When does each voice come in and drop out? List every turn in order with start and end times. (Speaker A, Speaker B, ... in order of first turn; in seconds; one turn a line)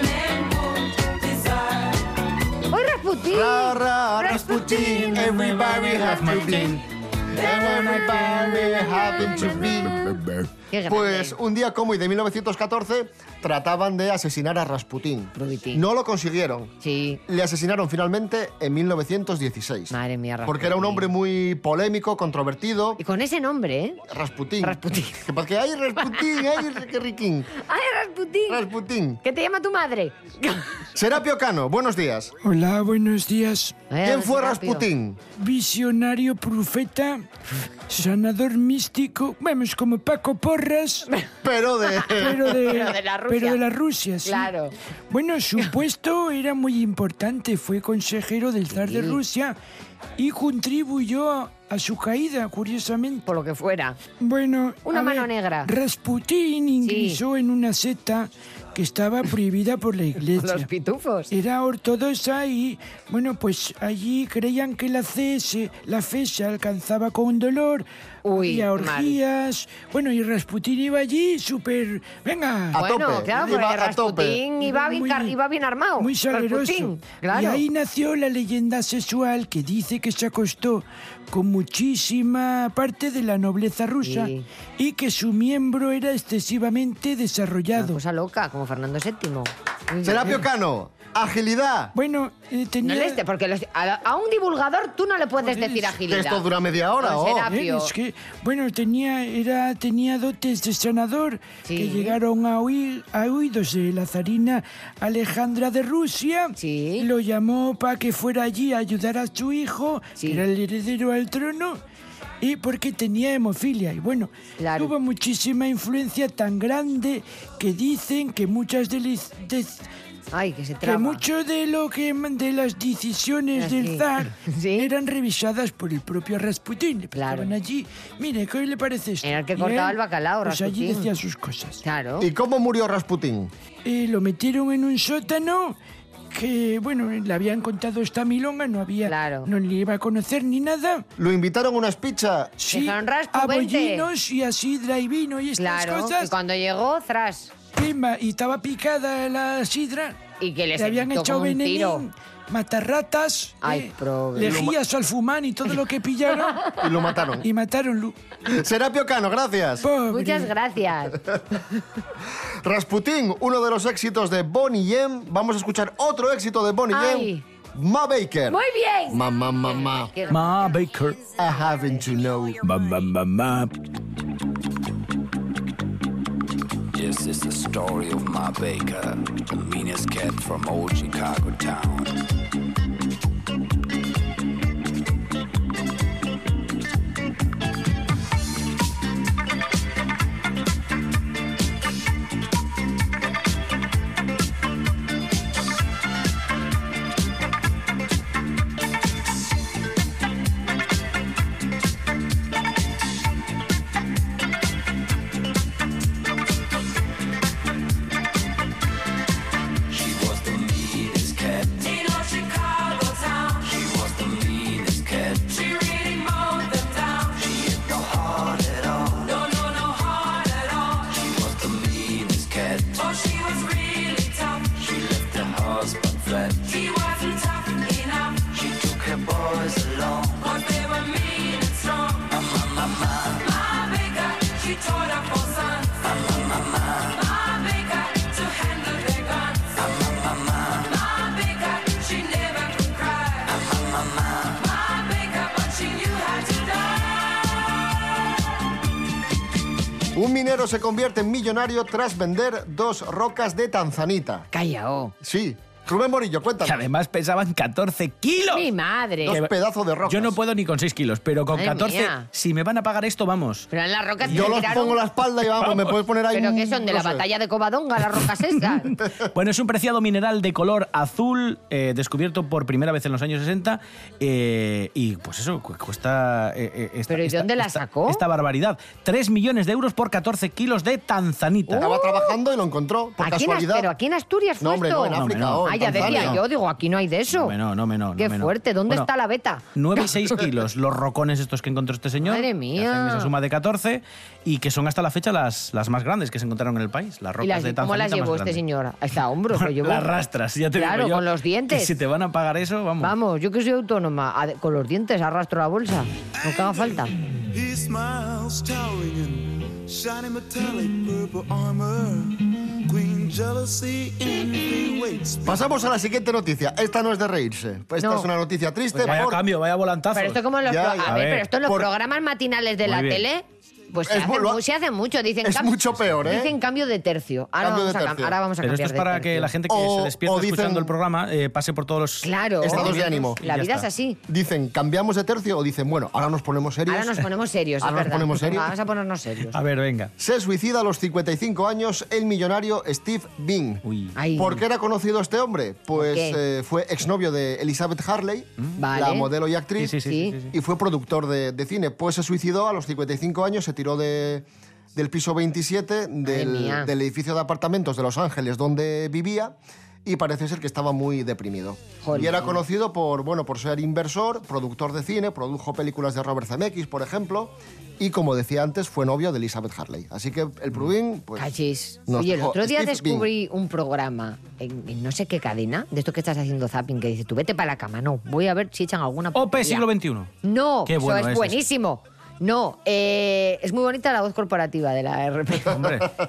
Speaker A: 2.7-6.5
Speaker B: 3.3-6.8
Speaker C: 5.1-6.8
Speaker B: 7.3-10.2
Speaker C: 7.4-9.7
Speaker A: 10.7-11.3
Speaker B: 10.8-16.7
Speaker A: 15.3-15.8
Speaker A: 16.8-17.2
Speaker B: 17.3-23.0
Speaker A: 19.9-21.1
Speaker A: 23.0-24.0
Speaker B: 24.1-27.5
Speaker A: 24.6-25.2
Speaker A: 27.6-28.6
Speaker B: 28.5-29.2
Speaker A: 29.2-30.8
Speaker B: 30.9-32.3
Speaker D: 32.4-33.8
Speaker A: 33.9-34.8
Speaker B: 34.0-35.2
Speaker D: 35.4-37.3
Speaker D: 37.9-41.1
Speaker B: 41.4-42.9
Speaker A: 42.0-43.6
Speaker D: 42.2-44.5
Speaker A: 44.2-44.7
Speaker D: 45.1-49.5
Speaker A: 48.7-49.2
Speaker D: 50.2-53.2
Speaker A: 53.2-54.0
Speaker D: 54.2-60.7
Speaker A: 54.8-55.7
Speaker A: 56.8-57.2
Speaker A: 60.3-61.3
Speaker D: 61.3-72.8
Speaker A: 68.2-69.2
Speaker B: 72.7-74.4
Speaker A: 72.7-77.6
Speaker D: 74.6-75.3
Speaker D: 76.0-88.0
Speaker A: 84.0-84.5
Speaker A: 87.7-90.4
Speaker B: 90.0-91.9
Speaker D: 91.9-93.2
Speaker A: 92.8-96.4
Speaker D: 95.4-96.0
Speaker B: 96.1-97.5
Speaker A: 97.0-97.9
Speaker D: 97.4-111.8
Speaker A: 101.7-102.2
Speaker A: 106.6-107.1
Speaker A: 110.2-110.4
Speaker D: 112.4-119.8
Speaker A: 114.6-114.9
Speaker A: 120.3-121.2
Speaker D: 120.8-131.8
Speaker A: 123.5-124.9
Speaker A: 127.1-127.5
Speaker A: 129.2-131.1
Speaker A: 131.8-132.3
Speaker B: 132.2-133.5
Speaker D: 133.8-135.8
Speaker D: 136.3-141.1
Speaker A: 139.1-139.5
Speaker B: 141.2-142.5
Speaker D: 142.6-146.3
Speaker A: 142.7-144.1
Speaker A: 145.6-147.5
Speaker D: 147.7-150.2
Speaker A: 150.4-152.0
Speaker D: 150.8-156.7
Speaker A: 153.6-154.7
Speaker B: 154.4-154.7
Speaker B: 156.8-157.4
Speaker D: 157.4-158.2
Speaker B: 158.5-159.9
Speaker D: 159.8-160.5
Speaker A: 160.1-161.2
Speaker B: 162.6-170.1
Speaker A: 166.9-167.4
Speaker A: 168.5-170.6
Speaker C: 170.3-171.2
Speaker B: 171.3-172.6
Speaker A: 171.7-172.1
Speaker C: 172.6-173.7
Speaker E: 176.9-182.2
Speaker E: 209.9-212.2
Speaker E: 213.5-216.0
Speaker E: 217.1-219.8
Speaker E: 220.8-223.3
Speaker E: 224.5-227.1
Speaker E: 228.3-230.7
Speaker E: 232.1-233.6
Speaker E: 235.9-237.2
Speaker E: 239.6-240.9
Speaker E: 243.4-244.5
Speaker B: 250.1-254.5
Speaker A: 254.5-255.1
Speaker B: 255.2-256.8
Speaker C: 256.6-258.7
Speaker A: 258.5-259.4
Speaker B: 259.2-260.4
Speaker C: 259.2-259.5
Speaker C: 260.1-263.7
Speaker A: 261.5-262.2
Speaker A: 263.7-265.0
Speaker C: 264.2-264.6
Speaker B: 264.2-267.2
Speaker C: 265.6-266.0
Speaker A: 266.3-269.0
Speaker B: 269.0-269.3
Speaker C: 269.3-281.9
Speaker A: 277.1-278.2
Speaker A: 281.7-282.3
Speaker B: 281.8-283.9
Speaker A: 283.2-287.5
Speaker B: 284.6-286.4
Speaker C: 285.1-286.4
Speaker C: 287.3-289.1
Speaker A: 288.2-290.1
Speaker C: 289.7-298.6
Speaker A: 292.2-293.3
Speaker A: 297.4-300.1
Speaker C: 299.5-303.1
Speaker A: 300.7-301.9
Speaker A: 303.0-307.1
Speaker F: 306.4-306.8
Speaker F: 307.5-315.6
Speaker B: 315.4-319.4
Speaker A: 318.0-318.3
Speaker A: 318.9-319.3
Speaker C: 319.0-320.4
Speaker A: 320.1-329.5
Speaker B: 320.6-321.9
Speaker C: 321.0-321.5
Speaker C: 322.8-323.2
Speaker B: 324.0-324.6
Speaker B: 325.4-326.5
Speaker B: 327.6-328.4
Speaker C: 328.6-333.9
Speaker B: 329.7-330.9
Speaker A: 332.2-334.2
Speaker B: 332.6-333.4
Speaker B: 334.3-337.2
Speaker A: 336.9-339.5
Speaker B: 337.8-338.7
Speaker C: 339.5-340.1
Speaker B: 340.2-343.8
Speaker C: 343.8-344.1
Speaker A: 344.1-344.6
Speaker B: 344.3-371.5
Speaker A: 345.9-346.4
Speaker A: 348.8-349.3
Speaker C: 349.8-350.5
Speaker A: 350.0-350.3
Speaker A: 356.2-356.9
Speaker A: 362.0-362.6
Speaker A: 371.4-379.8
Speaker B: 372.1-373.3
Speaker C: 379.3-380.3
Speaker A: 380.4-385.9
Speaker C: 380.9-381.6
Speaker C: 385.7-386.1